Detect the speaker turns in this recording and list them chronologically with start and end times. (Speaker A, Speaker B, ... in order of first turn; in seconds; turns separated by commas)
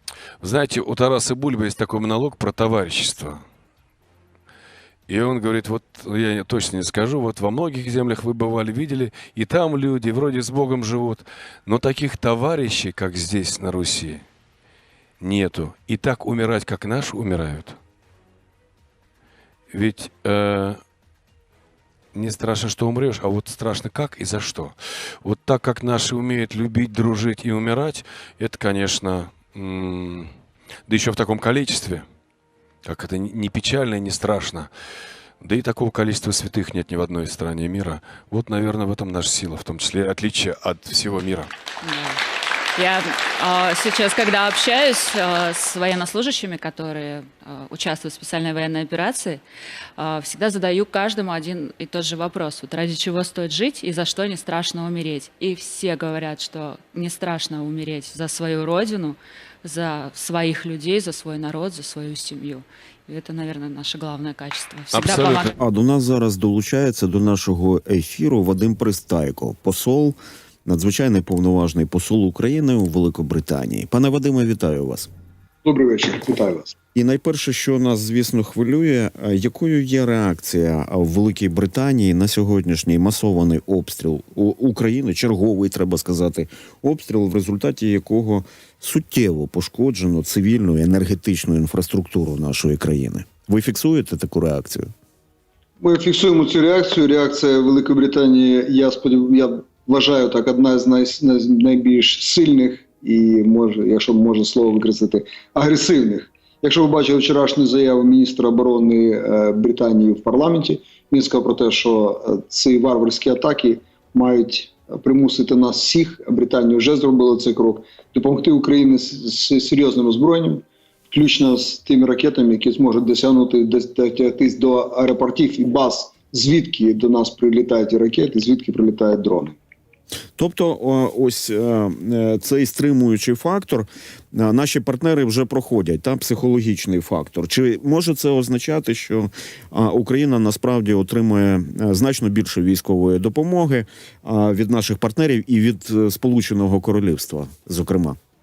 Speaker A: 0.4-3.4, Speaker A: 5.1-14.2, Speaker A: 15.2-17.8, Speaker A: 19.7-20.8, Speaker A: 22.1-30.3, Speaker A: 30.9-32.0, Speaker A: 32.8-34.7, Speaker A: 35.4-41.5, Speaker B: 41.8-42.2, Speaker B: 42.8-49.4, Speaker B: 50.0-65.5, Speaker A: 64.9-65.5, Speaker C: 65.6-75.1, Speaker D: 75.6-76.7, Speaker C: 76.9-94.9, Speaker D: 95.8-129.6, Speaker C: 130.4-148.2